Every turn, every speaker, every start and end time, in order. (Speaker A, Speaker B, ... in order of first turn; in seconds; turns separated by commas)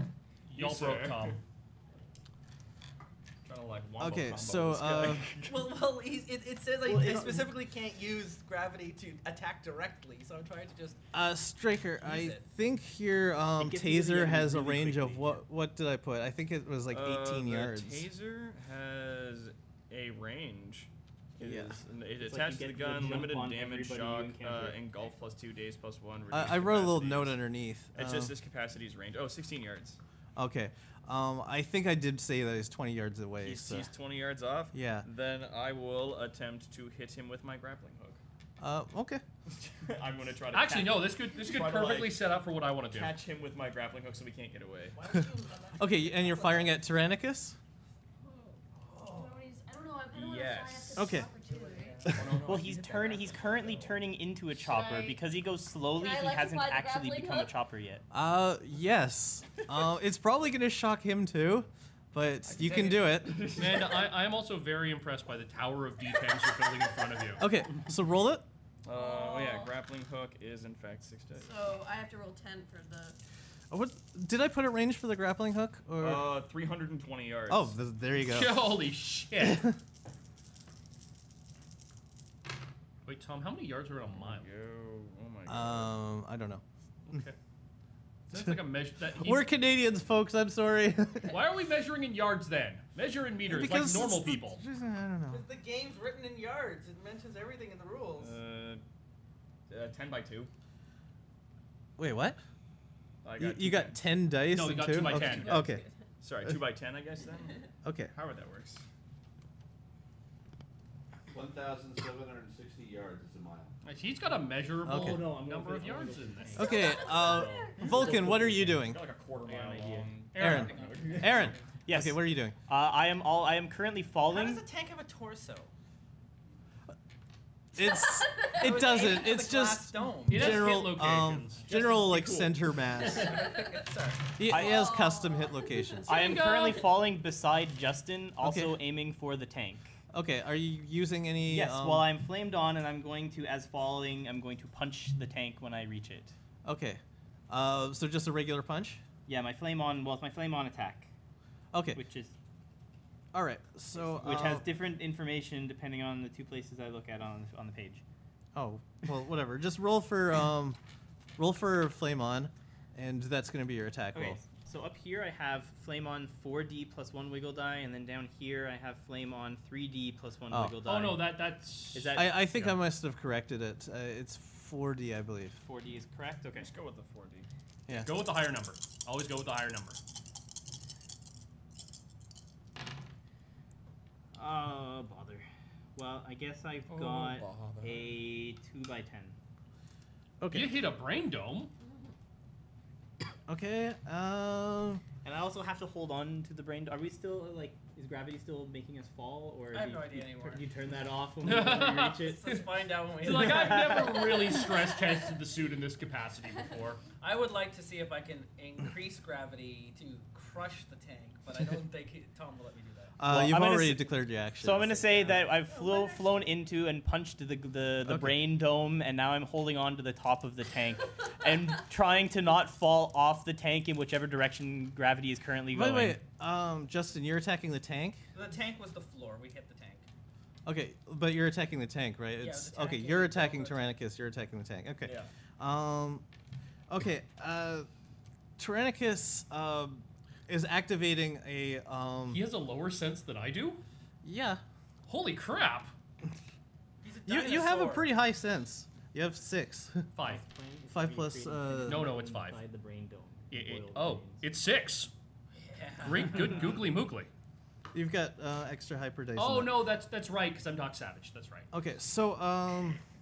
Speaker A: 0.5-1.4, Speaker B: 0.5-1.4, Speaker A: 3.4-5.8, Speaker C: 4.0-5.3, Speaker D: 5.4-11.0, Speaker E: 6.8-7.5, Speaker C: 11.1-18.1, Speaker D: 12.0-12.4, Speaker E: 13.6-15.4, Speaker A: 16.9-27.4, Speaker C: 21.4-21.8, Speaker E: 22.2-24.9, Speaker C: 26.3-28.3, Speaker A: 27.9-30.0, Speaker C: 30.4-33.9, Speaker A: 33.4-38.2, Speaker C: 34.7-35.0, Speaker C: 38.6-39.2, Speaker A: 39.5-42.2, Speaker B: 40.5-43.1, Speaker A: 42.9-45.0, Speaker D: 44.9-46.7, Speaker C: 45.8-47.6, Speaker F: 48.2-52.1, Speaker A: 49.0-49.2, Speaker A: 50.1-51.1, Speaker C: 51.0-51.3, Speaker D: 51.4-52.3, Speaker A: 52.0-54.0, Speaker E: 52.3-58.0, Speaker F: 54.5-55.2, Speaker F: 55.9-57.5, Speaker C: 58.1-63.5, Speaker A: 62.4-64.1, Speaker B: 63.6-67.5, Speaker C: 67.4-68.4, Speaker A: 68.8-71.5, Speaker F: 68.9-69.7, Speaker F: 71.3-73.2, Speaker C: 73.7-76.4, Speaker A: 76.0-77.7, Speaker C: 77.5-78.6, Speaker B: 78.2-79.7, Speaker C: 79.4-79.7, Speaker B: 83.0-84.5, Speaker A: 84.2-85.9, Speaker C: 85.5-86.6, Speaker B: 87.1-87.3, Speaker B: 88.3-89.5, Speaker C: 89.2-91.4, Speaker B: 91.2-94.6, Speaker C: 93.5-95.4, Speaker D: 95.3-98.3, Speaker A: 98.2-98.8, Speaker A: 99.7-100.5, Speaker C: 102.0-102.4, Speaker A: 103.2-104.0, Speaker C: 103.4-105.8, Speaker B: 104.5-105.6, Speaker F: 105.1-105.9, Speaker A: 106.2-108.8, Speaker C: 107.8-108.1, Speaker G: 111.3-113.7, Speaker B: 113.8-116.7, Speaker C: 114.8-115.3, Speaker E: 114.9-124.6, Speaker C: 116.6-119.0, Speaker F: 116.6-117.8, Speaker A: 117.2-121.6, Speaker B: 120.3-120.8, Speaker C: 120.4-122.5, Speaker D: 124.3-125.7, Speaker C: 127.7-133.3, Speaker F: 127.8-129.0, Speaker D: 128.6-130.7, Speaker B: 130.3-131.7, Speaker A: 131.7-132.6, Speaker D: 133.0-134.4, Speaker C: 134.4-136.1, Speaker F: 134.5-136.0, Speaker E: 134.5-134.8, Speaker B: 136.1-136.9, Speaker E: 136.1-139.9, Speaker C: 138.4-138.8, Speaker C: 140.1-142.1, Speaker E: 141.5-146.3, Speaker C: 146.6-149.0, Speaker E: 149.3-151.1, Speaker C: 151.7-152.0, Speaker E: 151.9-152.3, Speaker C: 153.3-154.7, Speaker E: 154.2-158.0, Speaker C: 158.5-160.8, Speaker C: 161.4-164.4, Speaker E: 164.1-171.4, Speaker C: 170.5-170.8, Speaker B: 170.8-172.7, Speaker E: 171.9-172.6, Speaker C: 172.1-175.6, Speaker E: 175.6-176.7, Speaker A: 176.5-177.5, Speaker C: 177.9-178.1, Speaker B: 177.9-180.0, Speaker E: 184.3-189.3, Speaker A: 186.9-188.2, Speaker C: 190.4-190.7, Speaker B: 190.5-191.7, Speaker F: 191.8-192.1, Speaker C: 193.5-195.0, Speaker E: 195.2-202.6, Speaker D: 199.7-200.6, Speaker B: 201.4-202.6, Speaker D: 202.2-204.0, Speaker B: 203.2-207.0, Speaker E: 203.2-204.5, Speaker D: 207.2-213.1, Speaker C: 213.2-215.3, Speaker E: 213.2-226.2, Speaker D: 215.0-216.5, Speaker C: 218.0-218.4, Speaker C: 225.7-228.2, Speaker D: 228.3-230.1, Speaker C: 230.6-236.2, Speaker D: 232.4-234.0, Speaker A: 235.0-235.3, Speaker C: 236.9-237.9, Speaker C: 238.6-242.4, Speaker B: 242.3-243.8, Speaker C: 244.2-244.6, Speaker B: 245.1-245.9, Speaker D: 247.0-248.1, Speaker C: 247.3-250.1, Speaker B: 250.2-250.4, Speaker E: 250.2-254.5, Speaker C: 250.9-252.1, Speaker B: 251.9-252.6, Speaker B: 253.5-255.1, Speaker D: 255.6-256.7, Speaker B: 256.0-257.3, Speaker C: 257.9-259.8, Speaker B: 259.4-261.7, Speaker C: 261.7-263.0